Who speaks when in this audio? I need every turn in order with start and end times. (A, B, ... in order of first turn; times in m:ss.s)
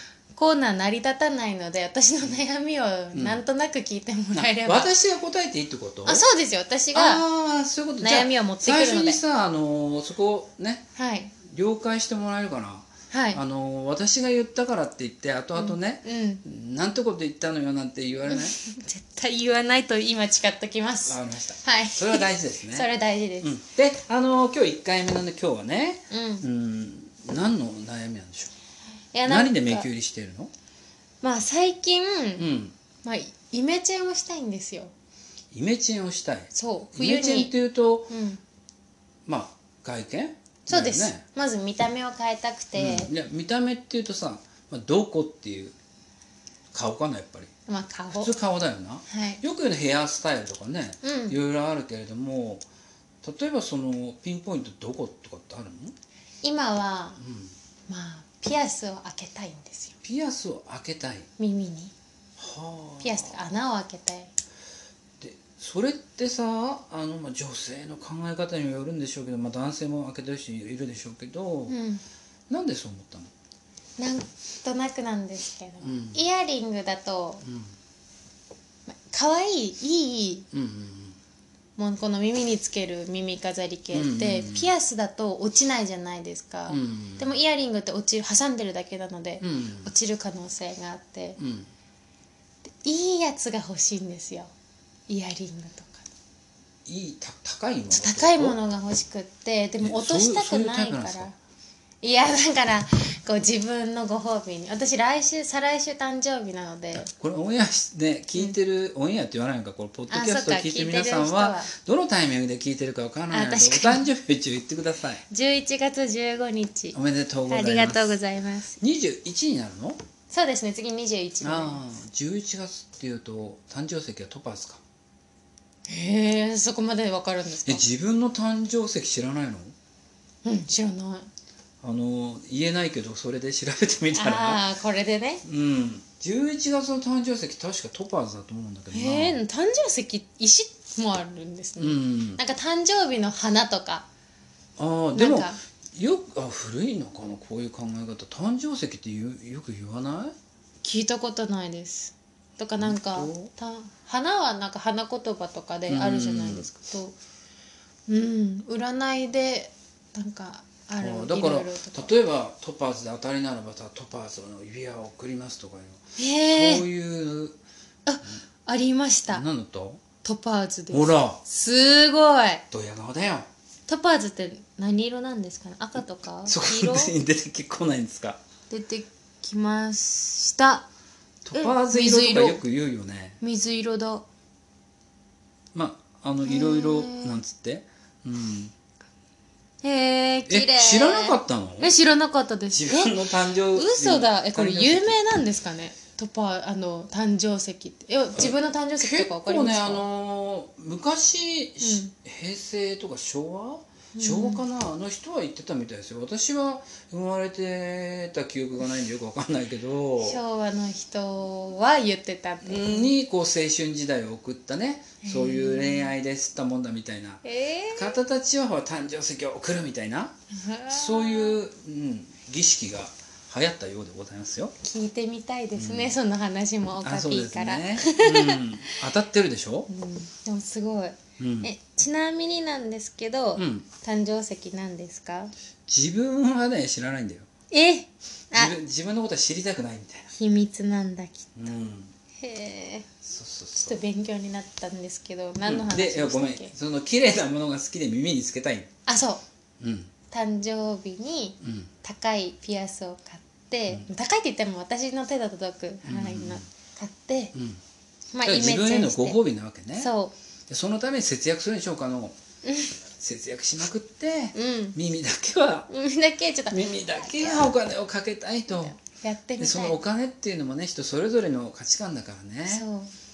0:00.3-0:04.9 A
0:03.1-0:03.4 B
0:04.4-0:06.2 B
0:06.0-0:07.2 A
0:06.9-0:10.9 B
0:08.0-0:09.2 A
0:11.0-0:11.3 A
0:11.4-0:18.6 B
0:13.1-0:13.4 A
0:15.6-0:16.4 A
0:18.3-0:23.6 A
0:21.1-0:22.9 B
0:23.4-0:28.5 B
0:26.1-0:26.5 A
0:29.1-0:29.9 A
0:29.3-0:30.5 B
0:31.2-0:32.5 A
0:32.4-0:32.8 B
0:33.0-0:34.9 A
0:35.5-0:38.1 B
0:36.5-0:37.5 A
0:38.1-0:38.4 A
0:39.3-0:41.2 B
0:40.7-0:43.1 A
0:42.8-0:45.8 B
0:46.7-0:47.5 B
0:47.7-0:48.3 A
0:48.1-0:52.6 B
0:49.1-0:49.4 A
0:51.0-0:51.4 A
0:53.2-0:56.0 B
0:56.4-0:57.2 A
0:57.2-0:57.5 B
0:57.9-1:00.0 A
1:00.0-1:01.3 B
1:01.4-1:01.9 A
1:02.4-1:03.4 B
1:03.0-1:04.3 A
1:05.2-1:11.8 B
1:11.7-1:12.0 A
1:12.5-1:13.3 B
1:14.0-1:17.4 A
1:15.8-1:16.2 B
1:17.4-1:17.7 B
1:18.9-1:20.5 A
1:20.5-1:21.2 B
1:21.8-1:31.4 A
1:23.9-1:24.7 B
1:26.7-1:27.3 B
1:29.4-1:29.9 B
1:31.4-1:31.7 B
1:32.8-1:34.5 A
1:35.1-1:36.1 A
1:36.9-1:38.6 B
1:37.9-1:41.4 A
1:39.8-1:41.3 B
1:42.0-1:47.1 A
1:46.9-1:55.2 B
1:50.1-1:51.7 A
1:53.3-1:54.1 A
1:55.3-1:57.0 A
1:56.9-1:58.2 B
1:57.5-1:58.8 A
1:58.8-2:00.0 B
2:00.3-2:01.8 A
2:01.4-2:04.8 B
2:05.9-2:07.8 A
2:07.7-2:09.8 B
2:10.4-2:11.3 A
2:11.8-2:14.6 B
2:14.1-2:15.4 A
2:15.4-2:19.4 B
2:18.9-2:24.1 A
2:21.8-2:22.4 B
2:24.8-2:30.4 B
2:25.2-2:25.6 A
2:30.8-2:37.2 A
2:32.8-2:33.5 B
2:35.9-2:36.7 B
2:38.1-2:42.2 A
2:41.0-2:47.6 B
2:46.2-2:46.9 A
2:48.1-2:49.4 A
2:49.3-2:50.0 B
2:50.2-2:52.6 A
2:50.9-2:51.4 B
2:52.7-2:53.5 B
2:53.9-2:57.1 A
2:56.5-2:58.4 B
2:58.7-3:00.9 A
3:01.4-3:03.4 B
3:01.5-3:02.6 A
3:03.4-3:04.2 A
3:05.7-3:08.7 B
3:06.4-3:07.4 A
3:09.8-3:20.0 A
3:10.5-3:11.9 B
3:12.7-3:15.2 B
3:18.4-3:30.4 B
3:21.8-3:22.1 A
3:24.2-3:24.6 A
3:30.2-3:33.1 A
3:32.6-3:37.4 B
3:35.2-3:36.1 A
3:37.4-3:38.2 A
3:37.9-3:40.4 B
3:40.5-3:41.6 A
3:40.9-3:44.8 B
3:44.8-3:49.0 A
3:45.8-3:46.2 B
3:47.0-3:49.9 B
3:49.9-3:55.5 A
3:51.4-3:51.7 B
3:53.6-3:53.9 B
3:55.9-3:57.5 B
3:57.7-3:58.8 A
3:58.6-4:00.3 B
4:00.3-4:01.6 A
4:01.6-4:02.1 B
4:02.4-4:03.1 A
4:03.2-4:04.0 B
4:03.8-4:06.7 A
4:05.6-4:08.9 B
4:09.1-4:09.4 A
4:09.8-4:10.1 B
4:10.3-4:17.6 A
4:11.6-4:11.9 B
4:16.0-4:16.7 B
4:17.5-4:17.8 B
4:18.3-4:19.4 A
4:18.4-4:20.1 B
4:20.0-4:20.3 A
4:20.7-4:22.4 B
4:22.6-4:22.9 A
4:23.2-4:25.9 B
4:24.6-4:25.0 A
4:25.9-4:27.7 A
4:26.7-4:29.0 B
4:28.7-4:30.0 A
4:29.6-4:32.9 B
4:32.7-4:33.1 A